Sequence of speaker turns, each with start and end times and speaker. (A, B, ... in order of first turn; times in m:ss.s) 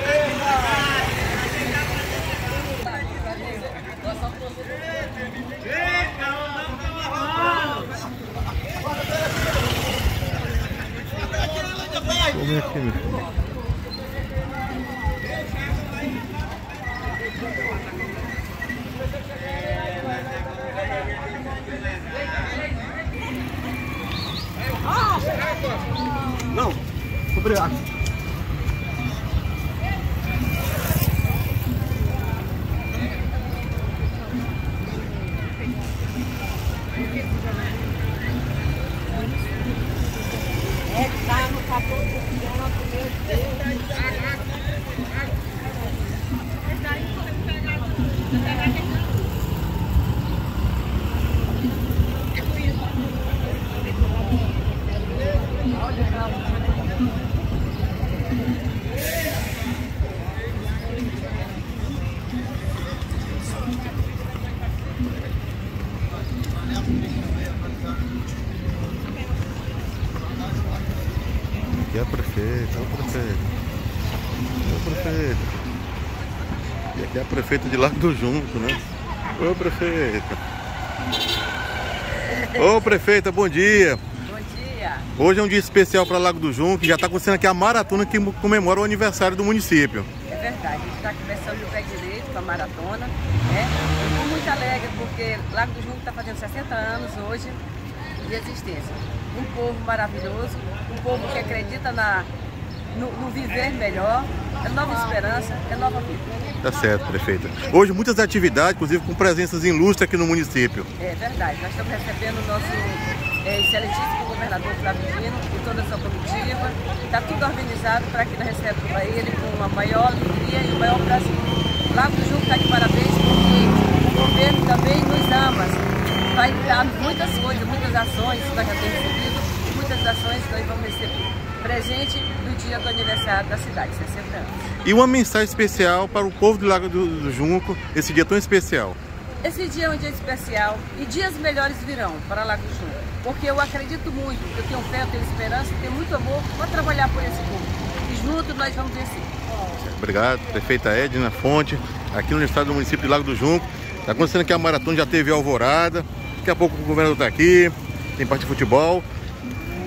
0:12.2-0:13.1 A
1:11.7-1:13.5 A
1:14.6-1:15.6 A
1:16.9-1:18.8 A
1:19.4-1:20.4 A
1:22.2-1:23.0 B
1:22.6-1:24.0 A
1:24.2-1:25.1 B
1:25.2-1:30.1 A
1:30.3-1:37.6 B
1:38.2-1:42.3 B
1:42.9-1:46.4 B
1:46.6-1:50.9 A
1:51.0-2:14.5 B
2:14.8-2:19.0 A
2:19.4-2:29.3 B
2:29.7-2:39.0 A